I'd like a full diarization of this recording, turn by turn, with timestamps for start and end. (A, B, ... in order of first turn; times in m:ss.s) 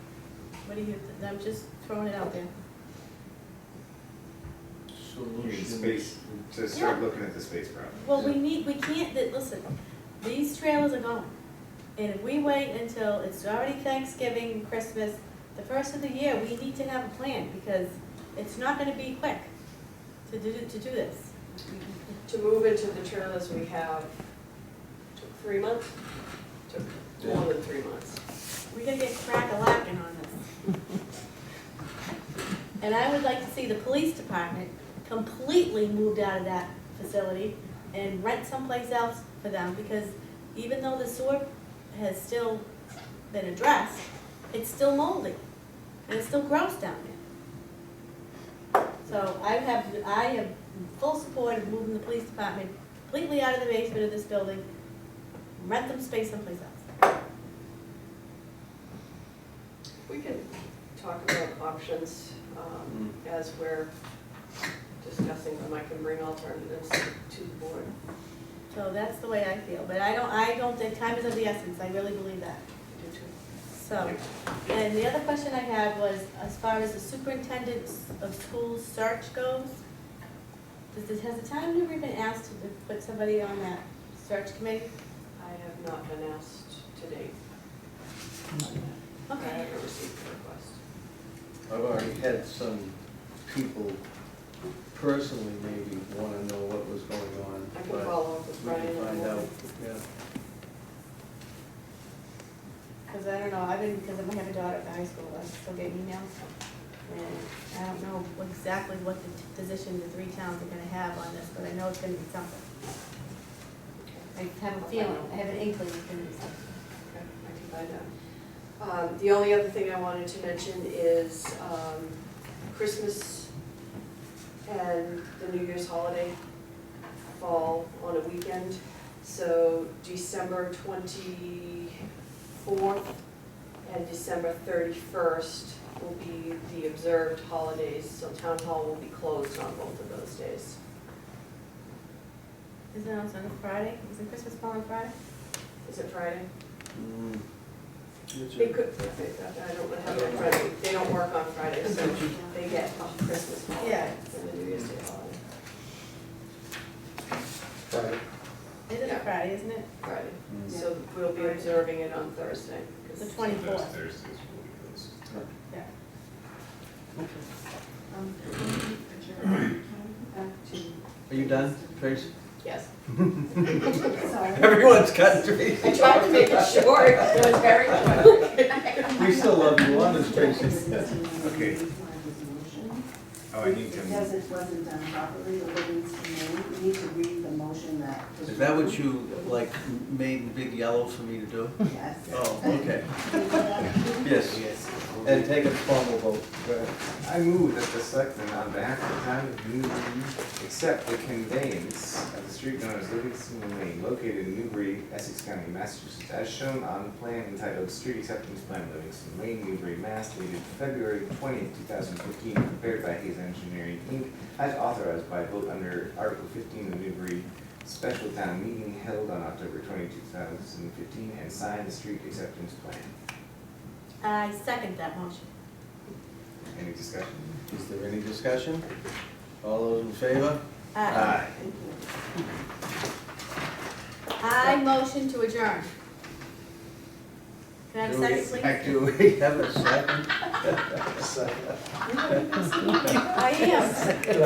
0:00.6-0:02.5 A
0:04.9-0:06.1 B
0:05.4-0:08.2 C
0:06.7-0:07.0 A
0:08.0-0:09.6 A
0:10.2-0:11.3 A
0:12.0-0:19.5 A
0:20.2-0:21.3 A
0:22.2-0:24.1 D
0:25.2-0:26.0 D
0:26.7-0:28.2 D
0:27.2-0:27.5 B
0:28.7-0:30.4 A
0:32.8-0:42.6 A
0:43.3-0:45.4 A
0:46.0-0:47.2 A
0:49.0-0:54.6 A
0:55.6-0:56.8 A
1:00.0-1:03.9 D
1:02.9-1:03.2 B
1:05.0-1:07.9 D
1:08.7-1:12.6 A
1:12.9-1:13.3 D
1:13.7-1:19.8 A
1:20.9-1:24.9 A
1:25.4-1:27.4 D
1:28.5-1:30.8 D
1:29.3-1:29.7 A
1:31.7-1:34.0 B
1:34.9-1:40.0 B
1:37.7-1:39.5 D
1:43.1-1:46.3 A
1:47.0-1:52.7 A
1:54.0-1:55.3 D
1:54.3-1:56.6 A
1:57.1-1:58.1 D
1:58.8-2:03.5 D
2:04.6-2:06.4 D
2:07.3-2:13.2 D
2:13.8-2:20.8 D
2:22.9-2:25.1 A
2:25.8-2:26.5 D
2:26.9-2:27.4 B
2:28.3-2:28.8 B
2:28.6-2:35.4 D
2:33.8-2:34.1 A
2:38.9-2:39.9 A
2:39.0-2:39.3 D
2:40.0-2:43.4 D
2:40.5-2:40.8 B
2:43.2-2:43.9 A
2:43.4-2:45.5 C
2:47.2-2:47.4 B
2:48.1-2:52.4 E
2:51.3-2:52.3 B
2:52.6-2:52.9 D
2:53.1-2:57.0 B
2:54.0-2:55.1 E
2:55.8-2:59.2 D
2:55.8-2:56.2 E
2:59.0-3:01.1 B
2:59.4-3:03.1 E
3:01.4-3:01.8 C
3:03.5-3:04.4 C
3:04.0-3:09.0 E
3:08.5-3:14.7 B
3:11.9-3:12.3 E
3:13.2-3:14.2 E
3:14.4-3:15.7 C
3:15.2-3:16.9 B
3:17.2-3:43.1 C
3:44.2-3:45.5 A
3:46.7-3:47.6 C
3:47.7-3:48.8 B
3:49.6-3:51.3 B
3:50.9-3:51.4 A
3:51.1-3:51.5 C
3:51.5-3:52.0 E
3:54.4-3:55.9 A
3:57.9-3:58.8 A
3:58.0-4:01.2 B
4:02.3-4:03.2 E
4:03.3-4:04.2 A